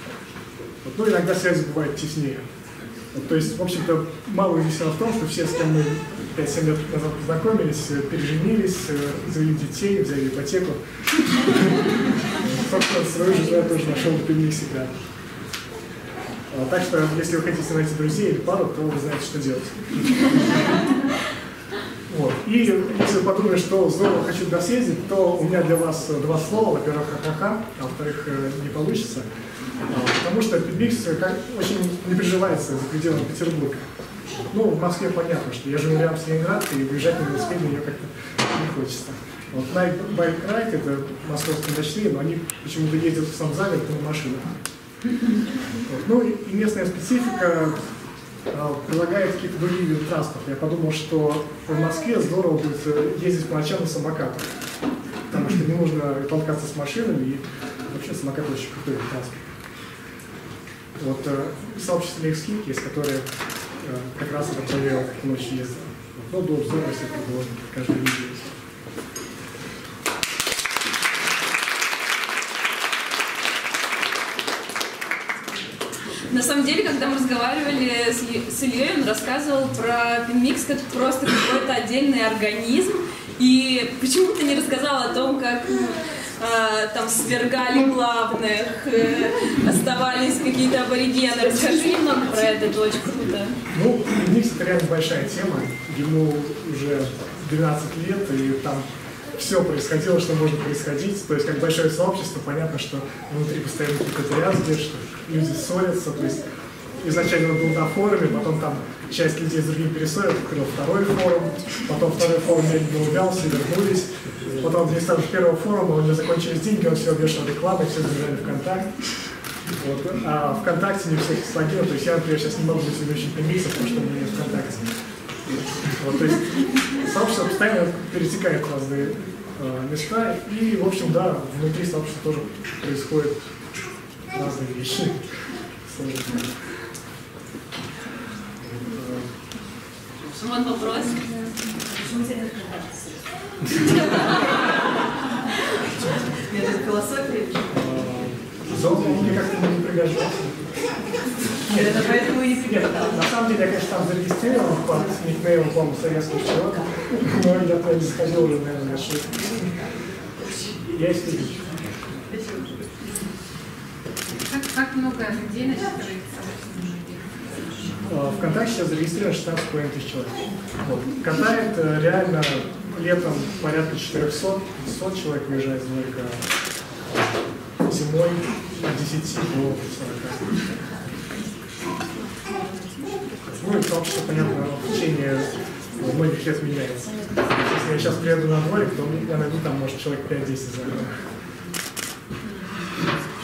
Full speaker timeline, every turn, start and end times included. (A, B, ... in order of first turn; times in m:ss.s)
0:00.8-0:02.5 A
0:03.1-0:14.9 A
0:16.5-0:20.6 A
0:22.1-0:29.3 A
0:29.8-0:33.8 A
0:34.5-0:44.6 A
0:45.8-0:47.8 A
0:48.5-0:54.5 A
0:55.3-0:59.5 A
1:01.0-1:03.3 A
1:03.8-1:08.5 A
1:16.3-1:33.5 B
1:33.7-1:38.8 A
1:39.4-1:46.4 A
1:47.0-1:59.2 A
1:59.8-2:04.9 A
2:06.0-2:13.5 A
2:14.3-2:15.2 A
2:15.8-2:16.5 A
2:18.6-2:19.3 A
2:20.4-2:21.4 B
2:22.1-2:22.7 C
2:26.5-2:27.6 C
2:27.7-2:30.8 A
2:31.7-2:39.7 A
2:31.7-2:33.0 C
2:40.9-2:41.8 A
2:44.4-2:47.4 D
2:48.0-2:56.4 A
2:57.8-3:00.6 A
3:03.5-3:11.2 A